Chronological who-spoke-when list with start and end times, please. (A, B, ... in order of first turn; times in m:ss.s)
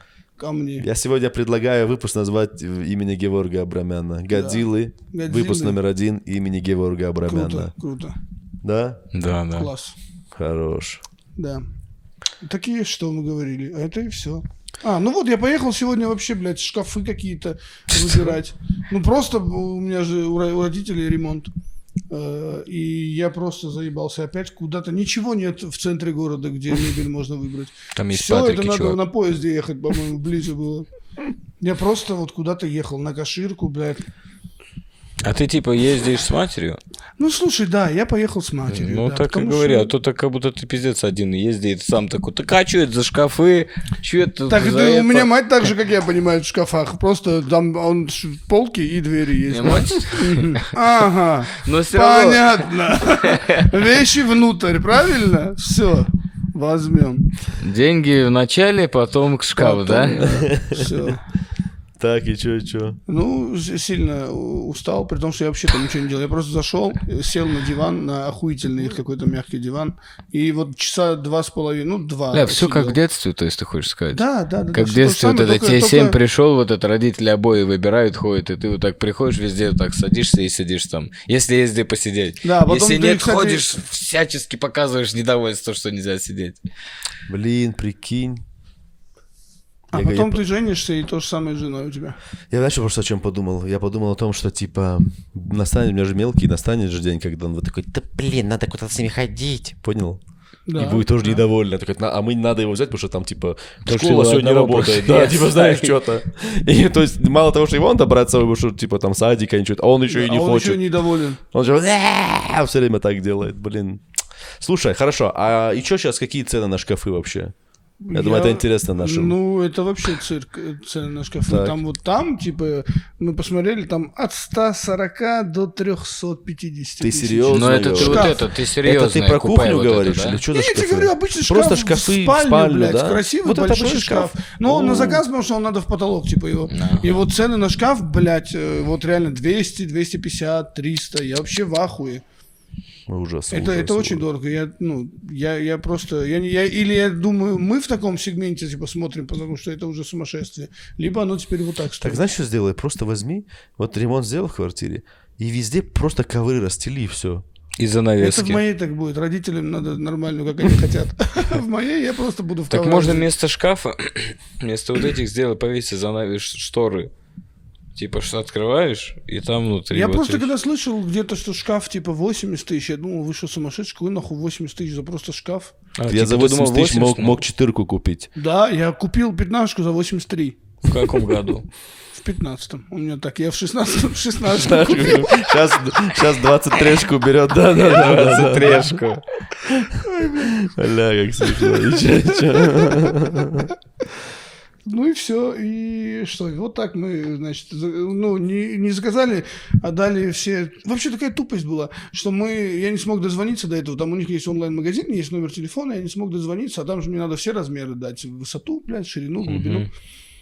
0:00.4-0:00.9 A
0:00.8-0:07.7 B
0:04.3-0:05.8 A
0:07.3-0:08.2 A
0:08.6-0:09.0 B
0:09.1-0:09.7 C
0:09.5-0:10.0 A
0:10.4-0:11.0 B
0:11.4-0:11.6 A
0:12.4-0:21.5 A
0:22.1-0:30.9 A
0:28.0-0:29.0 C
0:31.6-0:34.1 A
0:35.2-0:36.8 C
0:37.2-0:39.9 A
0:38.7-0:45.3 C
0:44.5-0:57.3 A
0:49.5-0:50.7 C
0:51.5-0:53.7 C
0:57.6-1:00.3 C
0:59.6-1:01.2 A
1:00.2-1:01.0 B
1:02.0-1:03.0 B
1:03.1-1:13.0 A
1:12.3-1:14.2 C
1:14.1-1:16.2 A
1:14.7-1:26.6 C
1:22.4-1:23.7 A
1:27.3-1:28.4 B
1:29.9-1:32.2 A
1:29.9-1:30.4 B
1:32.5-1:40.2 B
1:40.7-1:41.4 A
1:40.8-1:51.0 B
1:43.9-1:46.0 C
1:50.1-1:51.4 A
1:51.5-1:54.0 B
1:54.6-1:57.5 B
1:58.0-2:08.4 A
1:58.1-1:59.4 B
2:01.5-2:01.8 B
2:07.0-2:15.2 B
2:07.5-2:10.4 C
2:10.5-2:22.2 A
2:16.7-2:17.2 C
2:23.1-2:24.2 B
2:23.5-2:32.2 A
2:32.0-2:37.4 B
2:37.8-2:38.6 C
2:38.2-2:43.3 A
2:42.7-2:47.1 C
2:48.0-2:50.5 C
2:49.9-2:55.7 A
2:56.0-2:57.4 C
2:56.1-2:58.3 B
2:58.4-3:00.6 A
3:00.8-3:01.7 C
3:02.1-3:05.6 A
3:04.5-3:09.0 B
3:07.7-3:09.2 C
3:09.7-3:13.7 B
3:10.0-3:10.7 A
3:11.5-3:13.7 A
3:14.8-3:29.9 A
3:29.4-3:29.9 C